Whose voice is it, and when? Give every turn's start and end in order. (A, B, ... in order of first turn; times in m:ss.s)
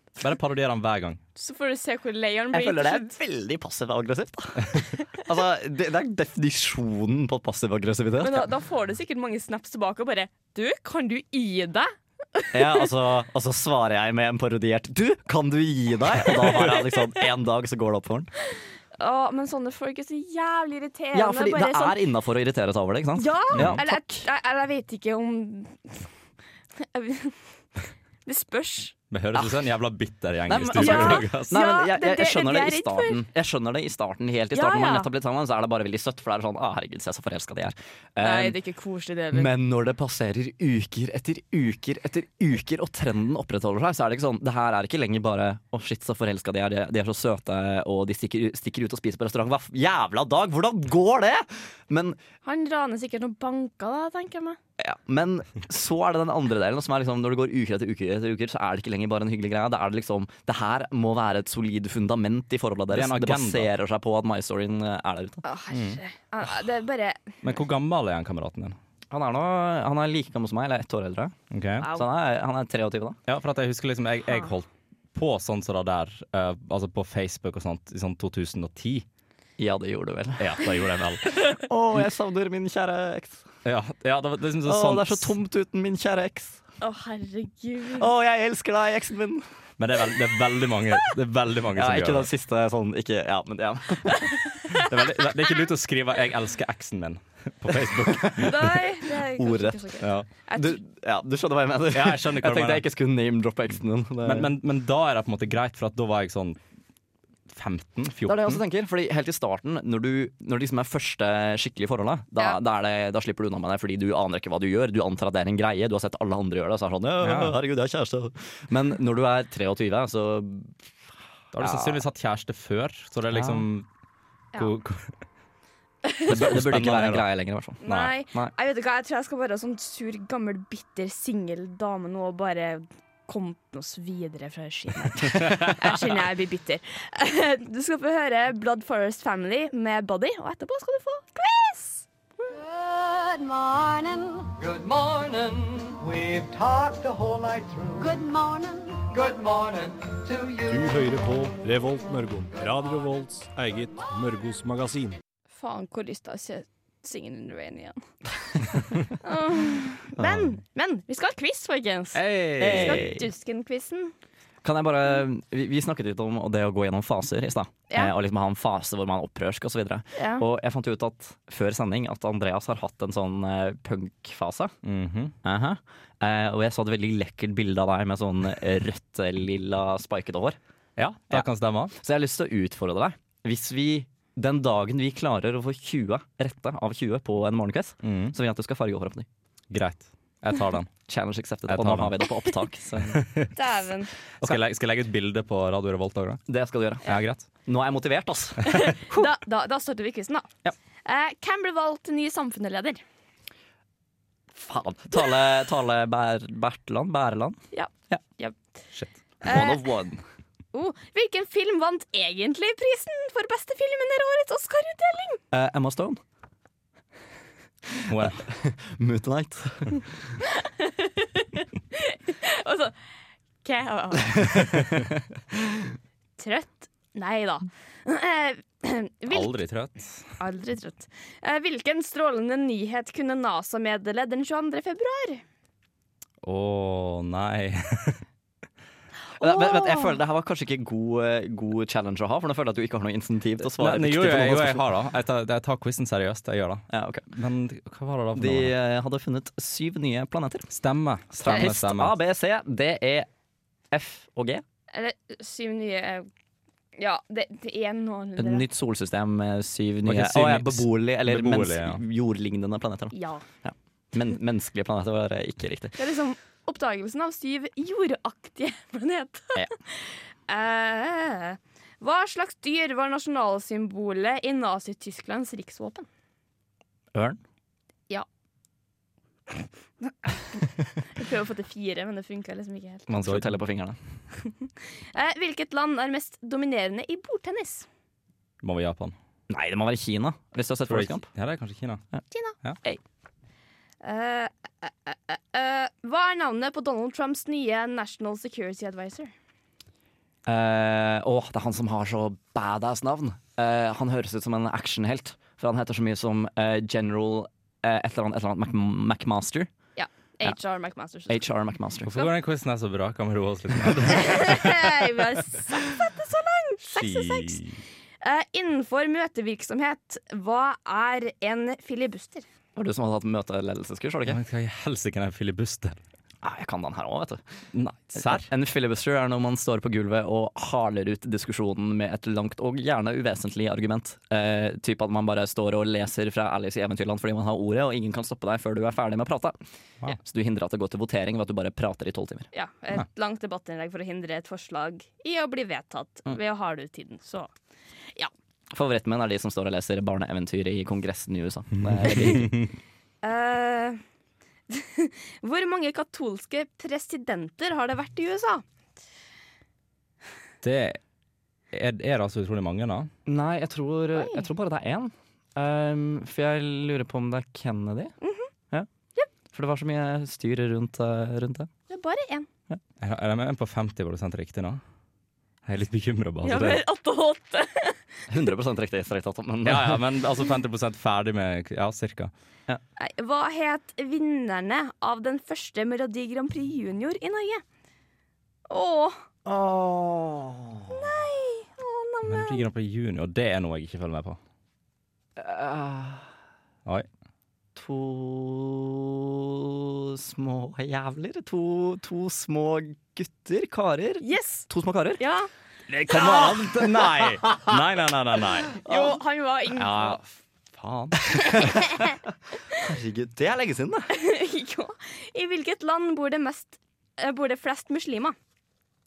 0:00.2-0:01.2 A
0:01.4-0:03.1 B
0:02.5-0:08.5 C
0:08.2-0:12.8 B
0:12.5-0:18.3 C
0:19.0-0:22.0 B
0:21.1-0:24.0 C
0:23.2-0:26.1 B
0:23.5-0:23.8 A
0:26.8-0:27.4 B
0:28.2-0:28.9 B
0:29.1-0:31.5 A
0:30.5-0:38.6 C
0:30.8-0:33.2 B
0:34.5-0:35.1 B
0:38.2-0:39.5 B
0:39.3-0:52.2 C
0:52.4-0:54.6 B
0:54.8-1:05.4 C
1:02.9-1:03.7 A
1:05.4-1:07.4 B
1:05.7-1:06.0 A
1:07.4-1:08.8 A
1:09.1-1:11.3 C
1:11.5-1:11.9 A
1:11.9-1:13.2 C
1:13.3-1:19.0 A
1:19.6-1:20.7 C
1:20.4-1:21.3 A
1:21.2-1:23.4 C
1:23.6-1:25.3 A
1:24.6-1:26.6 C
1:26.8-1:28.1 B
1:28.0-1:29.4 C
1:29.8-1:32.3 A
1:31.8-1:34.2 C
1:34.7-1:38.7 A
1:37.9-1:38.7 C
1:38.4-1:40.8 B
1:39.3-1:39.8 C
1:40.0-1:40.3 A
1:40.5-1:44.5 C
1:41.9-1:42.8 A
1:44.2-1:46.6 A
1:47.5-1:48.6 A
1:48.2-2:00.8 C
1:57.2-1:57.6 A
2:01.5-2:03.8 A
2:01.6-2:02.0 C
2:03.3-2:03.6 C
2:04.6-2:05.1 A
2:06.3-2:07.2 A
2:06.3-2:08.5 C
2:07.8-2:22.0 B
2:07.8-2:08.1 A
2:22.5-2:24.5 D
2:24.6-2:28.2 E
2:28.0-2:29.0 D
2:29.0-2:30.9 E
2:30.7-2:35.2 F
2:35.5-2:38.0 B
2:39.2-2:44.1 B
2:42.1-2:43.1 A
2:42.6-2:43.2 C
2:44.6-2:54.7 C
2:50.1-2:50.4 B
2:54.8-2:55.4 A
2:55.4-3:00.6 C
3:01.0-3:01.9 A
3:02.0-3:09.2 C
3:08.0-3:08.3 A
3:09.7-3:10.9 A
3:11.1-3:13.2 C
3:11.7-3:12.3 A
3:13.1-3:13.5 A
3:13.6-3:14.1 B
3:14.4-3:16.4 A
3:16.5-3:19.3 C
3:17.0-3:17.4 A
3:18.7-3:20.5 B
3:21.0-3:23.0 B
3:24.5-3:27.6 C
3:27.7-3:28.6 B
3:29.4-3:29.9 B
3:29.4-3:30.2 C
3:30.7-3:35.4 B
3:35.5-3:36.2 C
3:38.0-3:40.1 C
3:38.1-3:38.5 A
3:40.6-3:42.9 B
3:43.6-3:44.8 B
3:46.4-3:49.5 B
3:49.3-3:50.3 A
3:50.4-3:55.4 B
3:56.4-3:58.2 A
3:59.4-4:00.2 B
3:59.4-4:04.8 C
4:03.7-4:08.7 A
4:06.9-4:07.2 C
4:08.3-4:10.7 C
4:10.7-4:12.1 A
4:11.3-4:13.3 C
4:13.9-4:14.6 C
4:14.9-4:16.3 B
4:17.0-4:18.6 B
4:18.4-4:26.0 C
4:20.0-4:22.0 A
4:23.1-4:23.4 B
4:26.0-4:36.1 B
4:37.1-4:37.4 C
4:41.1-4:43.1 B
4:43.1-4:44.0 C
4:43.2-4:43.5 A
4:44.4-4:47.9 B
4:48.6-4:49.2 A
4:49.5-4:51.3 C
4:50.8-4:52.0 A
4:52.3-4:52.6 B
4:54.0-4:59.3 B
5:00.4-5:09.7 C
5:10.0-5:11.4 B
5:11.3-5:12.1 C
5:12.1-5:14.9 A
5:14.1-5:17.6 B
5:16.9-5:17.8 A
5:18.2-5:22.5 B
5:22.7-5:24.4 C
5:24.3-5:26.0 A
5:26.4-5:27.4 C
5:27.7-5:28.5 A
5:28.1-5:42.5 C
5:42.5-5:47.5 B
5:48.7-5:52.6 C
5:53.2-5:54.0 B
5:54.7-5:58.6 B
6:00.6-6:01.0 A
6:01.7-6:03.1 A
6:03.2-6:08.1 C
6:04.1-6:04.5 B
6:08.2-6:08.5 B
6:09.5-6:11.7 C
6:11.9-6:12.5 B
6:13.0-6:14.8 A
6:15.6-6:16.8 A
6:16.4-6:18.0 B
6:18.3-6:20.0 C
6:19.6-6:22.3 A
6:23.0-6:27.6 B
6:28.7-6:29.2 B
6:29.4-6:31.0 C
6:30.9-6:32.6 B
6:32.3-6:34.4 A
6:35.4-6:36.3 C
6:37.8-6:45.2 C
6:44.2-6:44.7 B
6:45.2-6:45.5 B
6:45.9-6:47.7 C
6:45.9-6:48.8 A
6:48.8-6:50.2 B
6:48.8-6:49.2 C
6:49.8-6:51.5 A
6:51.2-6:52.0 C
6:51.5-6:52.0 B
6:52.7-6:54.1 C
6:54.1-6:58.4 B